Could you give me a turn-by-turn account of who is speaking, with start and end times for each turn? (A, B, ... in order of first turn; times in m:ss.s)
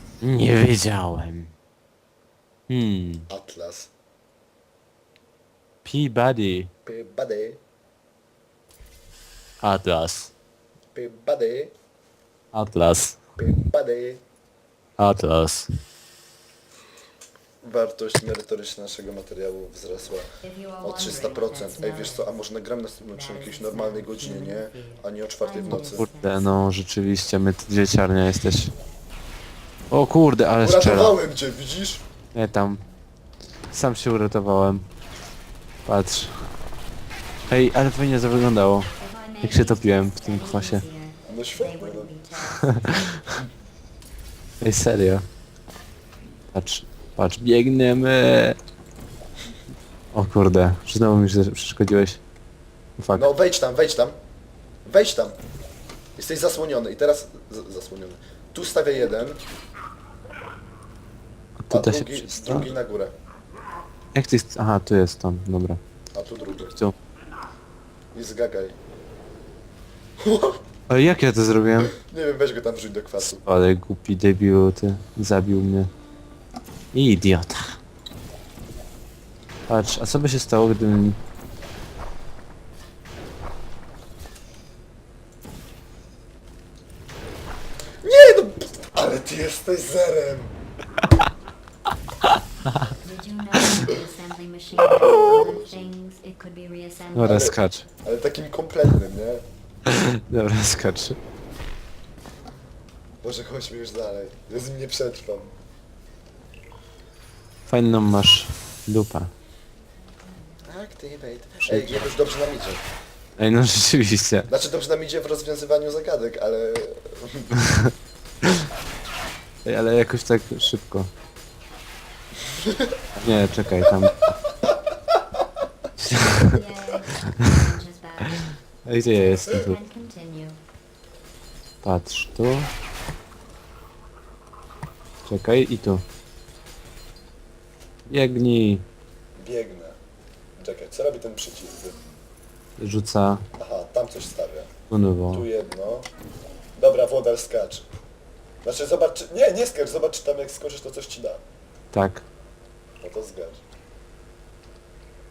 0:00.2-0:01.5 A
0:02.7-0:03.3 A
0:03.3-0:03.9 B
0:05.8-0:06.7 A
0:06.9-0:07.6 B
0:09.6-0:10.3 A
0:10.9-0:11.7 B
0:12.5-0:13.2 A
0:13.4-0:14.2 B
0:15.0-0:15.7 A
0:17.6-0:20.3 B
0:20.4-0:22.3 C
0:20.8-0:26.1 B
0:23.1-0:26.6 C
0:25.7-0:28.7 A
0:29.9-0:31.2 A
0:30.6-0:32.0 B
0:32.3-0:32.8 A
0:33.7-0:34.8 A
0:35.9-0:36.5 A
0:37.5-0:40.9 A
0:39.0-0:43.0 C
0:41.3-0:42.1 B
0:42.5-0:43.4 A
0:44.6-0:45.2 A
0:46.5-0:48.6 A
0:50.1-0:52.2 A
0:53.0-0:53.3 A
0:53.1-0:54.2 B
0:54.9-0:55.4 B
0:56.2-0:59.4 B
1:01.6-1:02.7 A
1:01.7-1:03.1 B
1:04.1-1:05.8 A
1:06.1-1:06.8 B
1:08.1-1:08.8 B
1:10.2-1:10.6 B
1:10.9-1:11.9 A
1:12.0-1:13.5 B
1:13.2-1:15.9 A
1:16.9-1:17.8 A
1:19.7-1:21.2 A
1:28.0-1:30.5 B
1:32.2-1:33.0 A
1:33.0-1:37.5 C
1:33.6-1:34.0 A
1:34.8-1:35.8 B
1:34.9-1:35.4 A
1:37.1-1:37.9 A
1:37.2-1:39.4 B
1:39.9-1:41.2 A
1:43.2-1:45.5 B
1:47.7-1:49.3 A
1:50.7-1:52.8 B
1:51.6-1:52.1 A
1:53.4-1:54.5 A
1:54.5-1:57.5 B
1:57.6-1:57.9 A
1:59.6-2:01.1 A
2:02.6-2:02.9 B
2:03.2-2:04.3 A
2:06.0-2:06.6 A
2:06.4-2:08.5 C
2:08.2-2:09.8 A
2:09.0-2:10.6 C
2:11.8-2:12.7 A
2:15.3-2:16.0 A
2:18.1-2:18.8 A
2:19.4-2:20.0 B
2:20.6-2:22.0 B
2:22.8-2:23.4 A
2:23.6-2:24.7 B
2:24.9-2:25.5 A
2:25.3-2:26.1 B
2:26.8-2:27.9 B
2:28.6-2:31.4 B
2:31.9-2:32.2 A
2:33.0-2:33.6 B